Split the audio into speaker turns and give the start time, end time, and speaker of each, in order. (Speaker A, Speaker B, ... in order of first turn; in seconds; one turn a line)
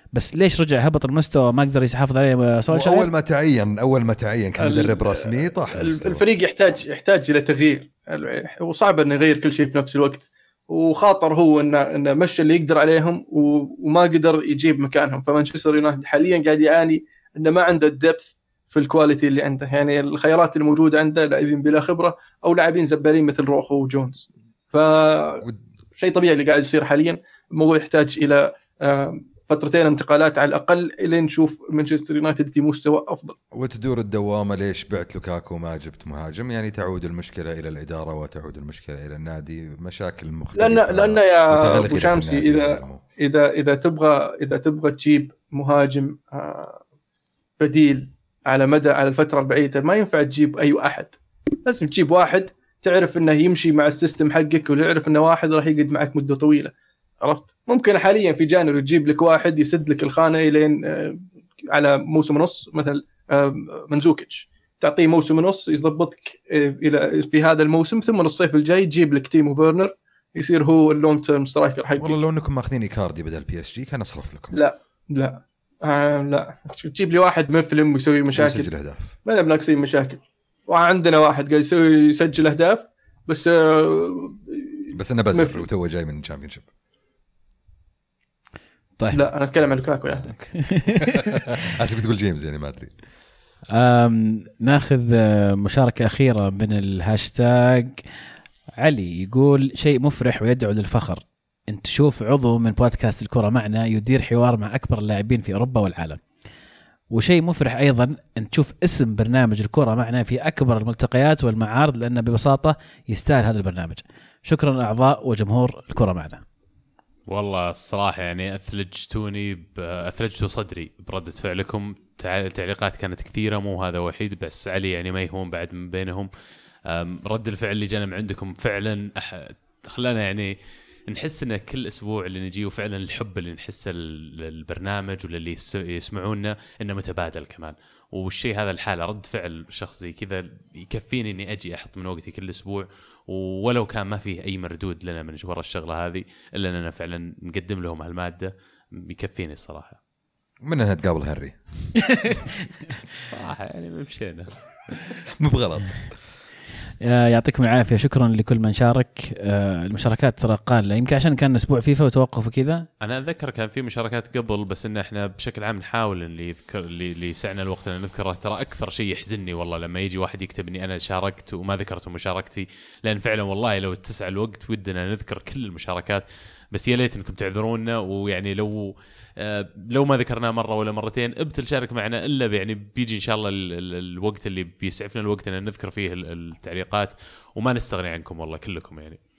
Speaker A: 0.1-3.1
Speaker B: 2.7-6.2
Speaker C: 4.6-25.4
Speaker C: 25.9-33.4
Speaker B: 33.5-43.0
Speaker C: 40.5-46.8
Speaker C: 47.6-72.2
Speaker B: 72.0-74.5
Speaker C: 74.5-78.7
Speaker B: 78.3-79.1
Speaker C: 79.2-85.6
Speaker B: 84.9-86.6
Speaker C: 89.1-90.5
Speaker A: 90.5-91.2
Speaker B: 91.0-92.9
Speaker A: 93.7-98.0
Speaker A: 98.8-106.2
Speaker A: 107.1-116.4
Speaker D: 117.3-126.3
Speaker D: 126.9-130.6
Speaker D: 131.1-150.0
Speaker B: 150.6-151.6
Speaker D: 153.2-155.2
Speaker B: 155.4-155.9
Speaker A: 157.0-162.8
Speaker D: 163.0-189.2